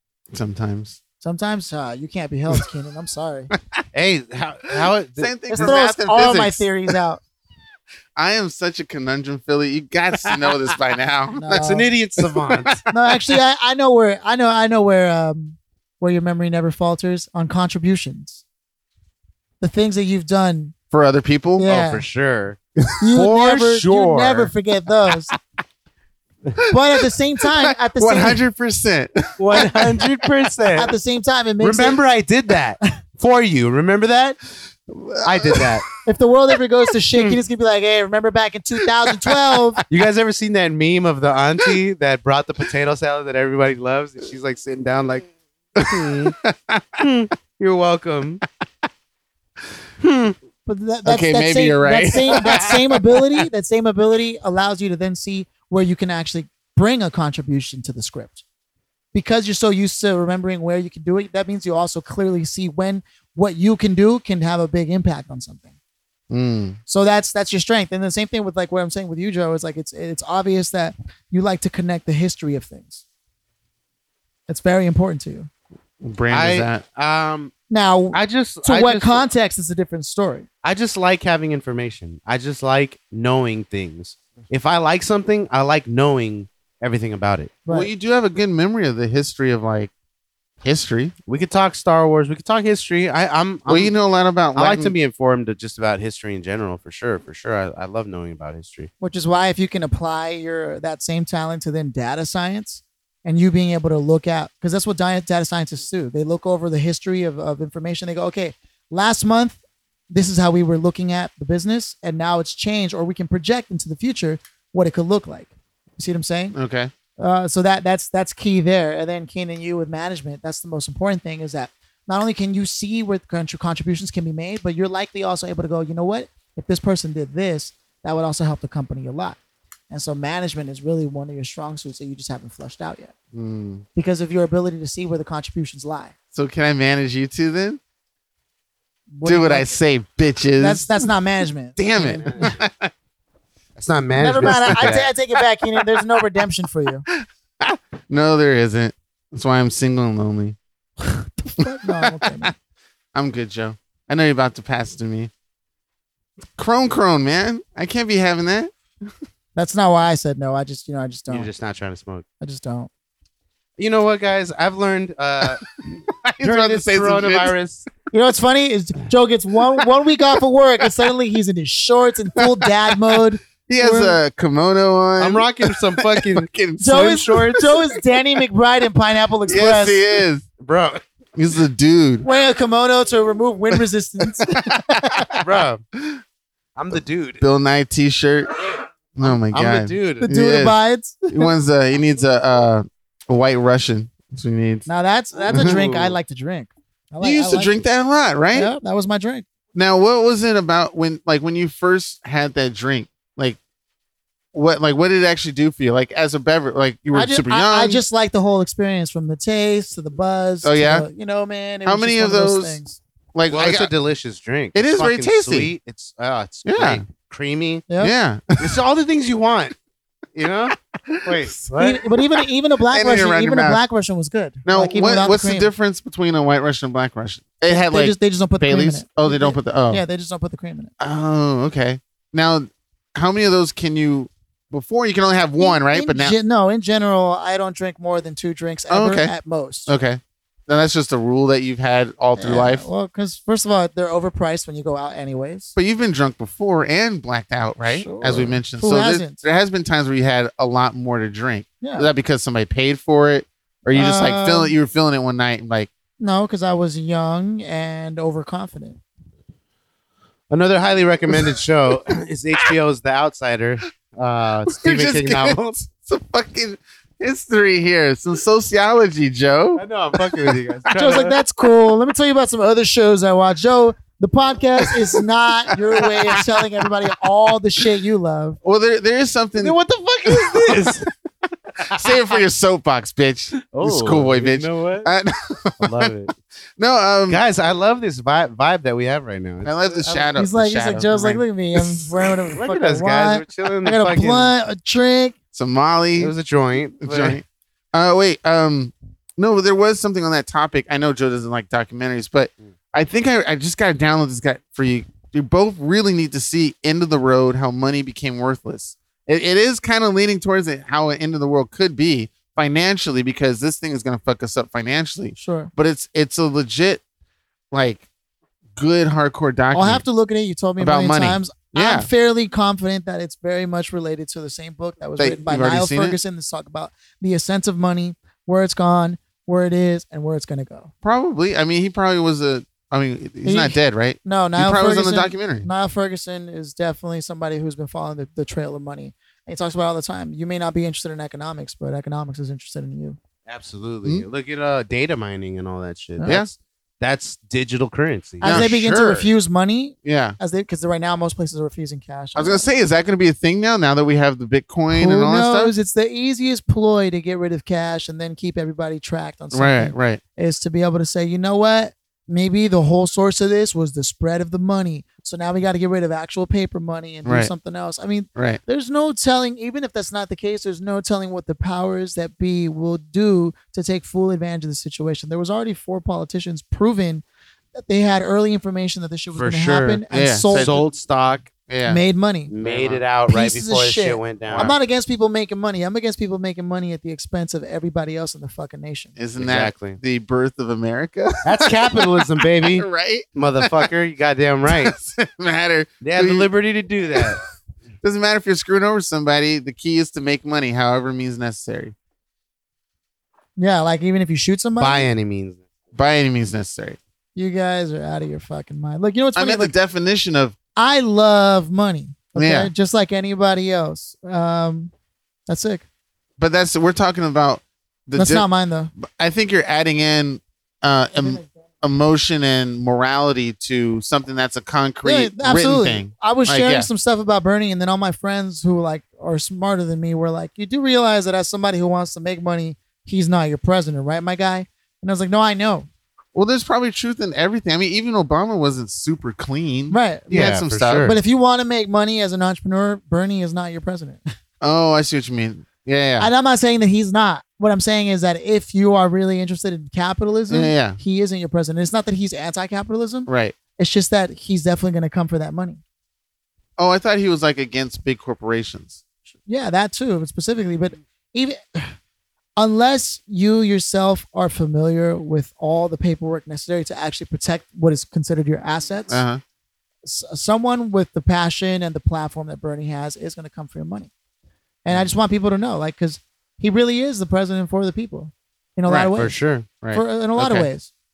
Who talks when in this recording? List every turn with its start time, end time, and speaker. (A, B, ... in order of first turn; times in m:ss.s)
0:00.3-0:01.0 A
0:01.2-0:03.5 B
0:03.9-0:05.8 C
0:05.2-0:06.7 A
0:05.5-0:07.2 B
0:08.2-0:11.7 A
0:11.4-0:11.9 B
0:11.6-0:12.8 C
0:12.2-0:13.1 A
0:12.9-0:18.4 B
0:19.6-0:20.7 B
0:20.9-0:21.7 A
0:21.6-0:22.0 B
0:21.6-0:22.6 C
0:23.0-0:25.3 B
0:23.1-0:24.5 C
0:26.7-0:28.4 B
0:27.6-0:30.1 A
0:29.4-0:30.9 C
0:30.8-0:32.0 B
0:31.6-0:34.4 C
0:34.9-0:35.8 A
0:35.2-0:35.9 C
0:36.0-0:39.8 B
0:39.2-0:39.8 A
0:39.9-0:45.3 C
0:45.8-0:47.0 A
0:45.8-0:46.3 C
0:47.0-0:48.4 C
0:50.0-0:50.3 C
0:50.6-0:58.4 B
0:51.0-0:53.4 A
0:59.1-1:05.7 B
1:06.3-1:06.8 A
1:06.9-1:13.0 B
1:14.5-1:15.5 B
1:16.0-1:16.8 A
1:16.3-1:17.5 C
1:17.7-1:20.5 B
1:18.1-1:19.2 C
1:20.6-1:27.5 C
1:27.6-1:27.9 B
1:27.7-1:29.9 A
1:30.6-1:31.1 A
1:31.3-1:33.9 C
1:33.7-1:34.9 A
1:34.5-1:38.9 C
1:39.0-1:49.6 B
1:50.1-1:56.6 B
1:56.5-1:56.9 A
1:57.2-2:09.4 B
2:09.9-2:13.1 B
2:13.3-2:13.8 A
2:13.9-2:16.1 B
2:16.3-2:17.8 A
2:19.1-2:19.8 B
2:19.2-2:21.1 A
2:20.6-2:22.5 B
2:21.8-2:22.9 A
2:22.2-2:22.5 C
2:23.8-2:25.1 C
2:24.2-2:27.0 B
2:24.4-2:25.9 A
2:27.1-2:30.6 A
2:31.0-2:32.5 B
2:31.6-2:32.5 A
2:33.1-2:35.3 A
2:36.6-2:38.7 A
2:39.6-2:41.5 B
2:41.3-2:42.2 C
2:42.4-2:42.9 B
2:43.8-2:45.8 C
2:46.1-2:47.5 A
2:46.4-2:47.8 C
2:48.1-2:54.2 B
2:52.4-2:57.7 A
2:55.2-2:57.6 C
2:56.8-3:00.0 B
2:59.5-3:00.4 A
3:00.6-3:01.0 C
3:01.4-3:02.2 A
3:02.2-3:05.4 B
3:04.5-3:05.4 A
3:05.4-3:05.8 C
3:05.9-3:06.2 A
3:06.8-3:07.4 C
3:07.4-3:08.5 A
3:09.1-3:10.8 A
3:09.2-3:10.3 C
3:10.2-3:11.5 B
3:11.3-3:14.8 A
3:14.8-3:17.8 B
3:15.5-3:16.1 C
3:15.5-3:15.8 A
3:17.2-3:18.7 A
3:18.5-3:19.4 B
3:19.7-3:23.6 A
3:24.5-3:28.0 A
3:27.1-3:33.0 B
3:30.6-3:31.0 A
3:31.8-3:32.8 A
3:33.3-3:33.9 A
3:33.5-3:37.9 C
3:34.7-3:35.7 A
3:36.6-3:37.0 A
3:38.0-3:38.8 A
3:38.6-3:39.7 C
3:40.3-3:42.0 C
3:40.7-3:41.5 A
3:41.8-3:45.7 B
3:42.9-3:43.8 A
3:44.6-3:50.0 A
3:47.7-3:50.9 B
3:51.0-3:56.3 A
3:55.6-3:59.9 B
3:58.9-3:59.3 A
3:59.9-4:02.9 A
4:02.4-4:05.7 B
4:05.8-4:15.9 A
4:07.8-4:09.4 B
4:11.8-4:12.1 B
4:13.9-4:14.7 B
4:16.2-4:19.0 B
4:20.5-4:25.7 C
4:21.3-4:21.6 A
4:24.7-4:31.2 A
4:29.8-4:31.3 C
4:30.9-4:38.6 B
4:35.7-4:36.4 A
4:38.6-4:41.0 A
4:39.6-4:41.1 C
4:41.9-4:42.4 C
4:41.9-4:46.1 A
4:43.7-4:45.1 C
4:45.8-4:46.3 C
4:46.8-4:47.4 A
4:47.3-4:50.3 C
4:49.6-4:52.1 A
4:50.4-4:55.4 B
4:52.6-4:54.5 C
4:55.5-4:56.3 A
4:56.2-4:57.4 C
4:57.0-5:17.0 A
5:15.4-5:15.7 B
5:17.7-5:18.0 A
5:18.8-5:20.0 A
5:19.7-5:30.9 B
5:20.8-5:22.1 A
5:25.2-5:26.2 A
5:31.0-5:35.7 A
5:33.4-5:43.2 B
5:43.5-5:48.7 C
5:46.2-5:46.4 B
5:48.4-5:52.7 B
5:48.4-5:49.3 A
5:50.0-5:50.4 A
5:52.4-5:55.7 A
5:54.9-6:20.8 B
5:59.5-6:00.2 A
6:07.2-6:07.5 A
6:19.3-6:21.5 C
6:20.1-6:20.8 A
6:21.7-6:22.0 A
6:21.8-6:22.5 B
6:22.5-6:24.7 C
6:22.6-6:23.0 A
6:23.3-6:29.2 B
6:24.5-6:24.8 A
6:29.2-6:33.9 A
6:29.4-6:30.0 C
6:31.4-6:35.0 C
6:34.7-6:36.5 A
6:36.0-6:37.4 C
6:38.0-6:41.9 A
6:43.6-6:45.1 B
6:44.8-6:45.6 C
6:45.9-6:47.0 A
6:47.3-6:49.7 B
6:49.3-6:50.5 A
6:50.8-6:54.9 B
6:52.3-6:52.7 A
6:55.5-6:55.8 B
6:56.4-6:58.5 A
6:58.2-6:58.9 B
6:59.0-7:06.9 A
7:01.2-7:01.5 B
7:05.0-7:15.9 B
7:16.3-7:21.1 A
7:19.9-7:24.2 B
7:20.3-7:21.2 C
7:24.6-7:26.3 A
7:26.2-7:35.8 B
7:30.5-7:31.0 A
7:33.3-7:33.6 A
7:36.8-7:39.0 A
7:39.4-7:42.0 B
7:42.6-7:49.2 B
7:49.1-7:49.4 A
7:50.0-7:54.1 B
7:54.8-7:59.4 B
7:58.9-7:59.1 A
7:59.1-7:59.7 C
7:59.8-8:00.7 A
7:59.9-8:00.9 B